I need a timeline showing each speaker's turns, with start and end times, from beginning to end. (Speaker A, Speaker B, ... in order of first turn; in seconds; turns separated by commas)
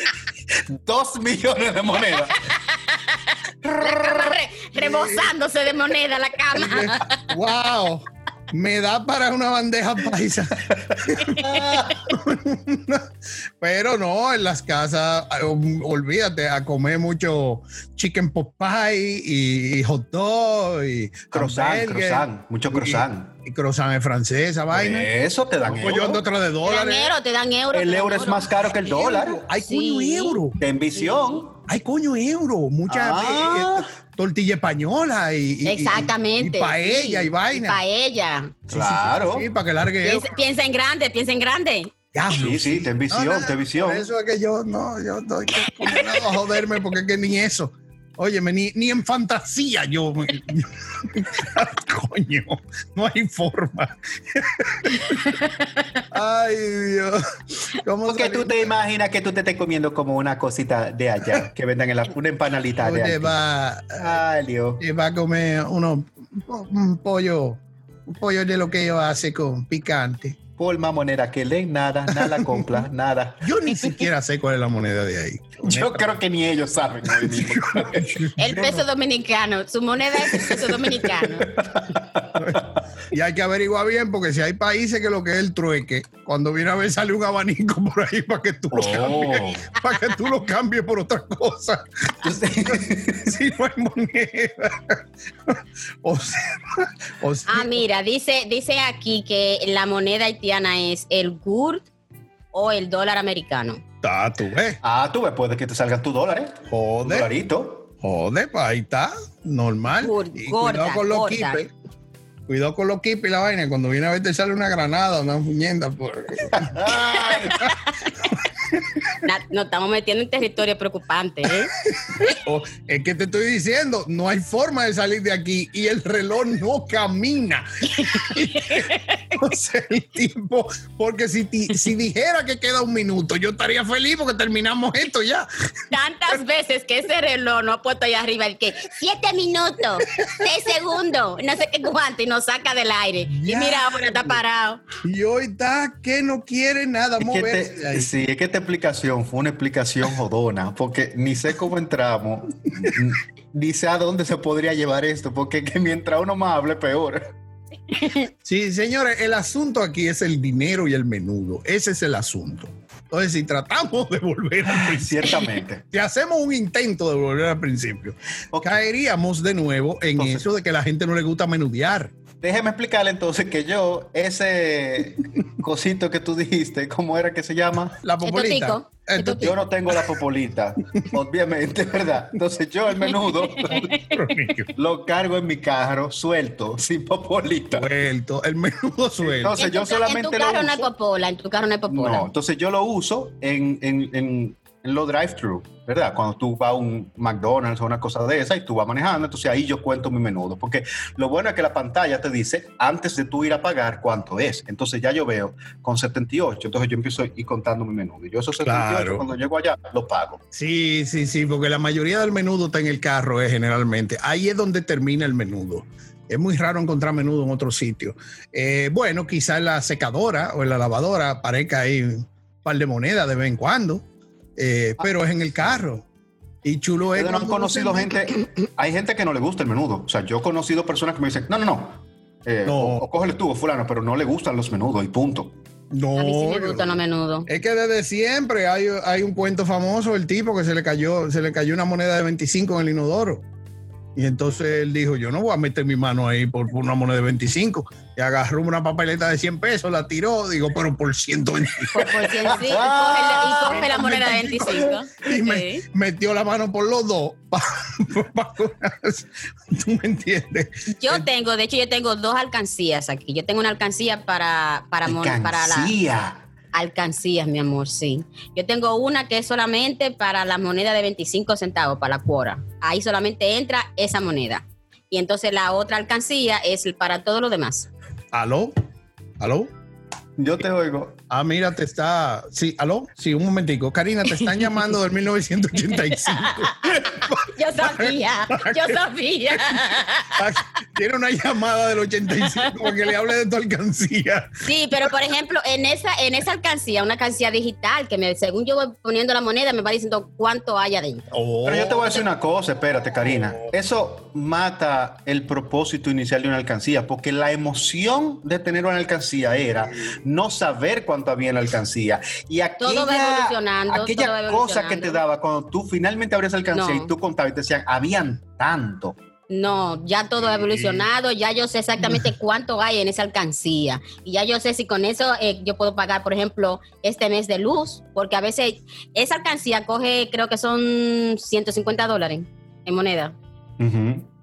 Speaker A: 0.5-2.4, Speaker B: 2.3-7.2, Speaker A: 3.6-4.4, Speaker C: 4.8-5.3, Speaker C: 6.5-25.1, Speaker A: 10.7-12.0, Speaker A: 21.3-23.3, Speaker A: 24.7-26.2, Speaker C: 25.6-27.1, Speaker B: 26.6-28.5, Speaker A: 27.7-29.4, Speaker C: 28.9-30.6, Speaker B: 29.6-30.4, Speaker A: 30.6-31.6, Speaker B: 31.0-31.4, Speaker C: 31.7-37.8, Speaker A: 32.9-33.9, Speaker B: 35.6-38.5, Speaker A: 38.7-39.5, Speaker C: 38.7-40.3, Speaker B: 40.0-41.9, Speaker C: 42.1-55.3, Speaker A: 42.3-44.1, Speaker B: 45.8-46.3, Speaker B: 55.2-55.6, Speaker C: 56.1-58.7, Speaker A: 58.0-63.4, Speaker C: 62.8-64.2, Speaker A: 64.0-64.8, Speaker C: 64.8-70.4, Speaker A: 70.6-73.8, Speaker C: 72.1-72.8, Speaker C: 73.4-76.2, Speaker A: 75.6-78.6, Speaker C: 77.1-78.8, Speaker B: 78.4-81.5, Speaker A: 80.2-82.7, Speaker C: 82.3-92.1, Speaker A: 88.7-89.6, Speaker A: 92.2-93.3, Speaker C: 93.2-97.8, Speaker B: 97.5-101.8, Speaker B: 102.5-103.8, Speaker C: 104.0-104.8, Speaker A: 104.8-107.9, Speaker C: 106.7-107.3, Speaker C: 108.0-111.7, Speaker B: 110.0-111.6, Speaker C: 112.5-116.8, Speaker A: 116.5-117.7, Speaker B: 117.3-117.9, Speaker C: 118.7-119.2, Speaker B: 119.2-121.7, Speaker C: 121.9-135.5, Speaker B: 128.0-129.4, Speaker B: 135.9-144.8, Speaker C: 140.1-140.5, Speaker C: 143.3-144.4, Speaker C: 145.0-148.1, Speaker A: 147.2-157.3, Speaker B: 157.9-158.3, Speaker C: 158.4-172.1, Speaker A: 164.7-165.8, Speaker A: 168.5-168.8, Speaker A: 170.2-170.5, Speaker A: 172.4-178.0, Speaker C: 178.0-179.6, Speaker B: 178.2-179.5, Speaker A: 179.4-183.9, Speaker C: 183.6-184.7, Speaker A: 184.7-187.9, Speaker C: 187.7-189.6, Speaker A: 189.2-190.9, Speaker B: 189.6-192.2, Speaker A: 191.9-210.4, Speaker C: 208.6-209.2, Speaker C: 210.5-224.1, Speaker C: 224.6-226.1, Speaker C: 226.6-228.1, Speaker A: 227.1-235.6, Speaker C: 232.7-233.0, Speaker C: 235.9-243.4, Speaker B: 236.2-237.5, Speaker C: 244.1-252.1, Speaker B: 251.9-255.8, Speaker A: 252.0-253.9, Speaker C: 253.4-261.2, Speaker B: 260.9-265.9, Speaker A: 265.1-266.4, Speaker B: 266.7-277.9, Speaker C: 278.3-278.7, Speaker C: 279.4-279.7, Speaker A: 280.4-281.2, Speaker C: 281.3-294.6, Speaker B: 284.4-284.7, Speaker B: 285.9-290.5, Speaker B: 292.4-293.0, Speaker B: 294.6-301.3, Speaker C: 301.3-302.0, Speaker A: 301.6-319.2, Speaker B: 312.8-315.2, Speaker B: 316.7-317.1, Speaker B: 319.5-333.4, Speaker C: 320.5-321.1, Speaker A: 333.8-334.3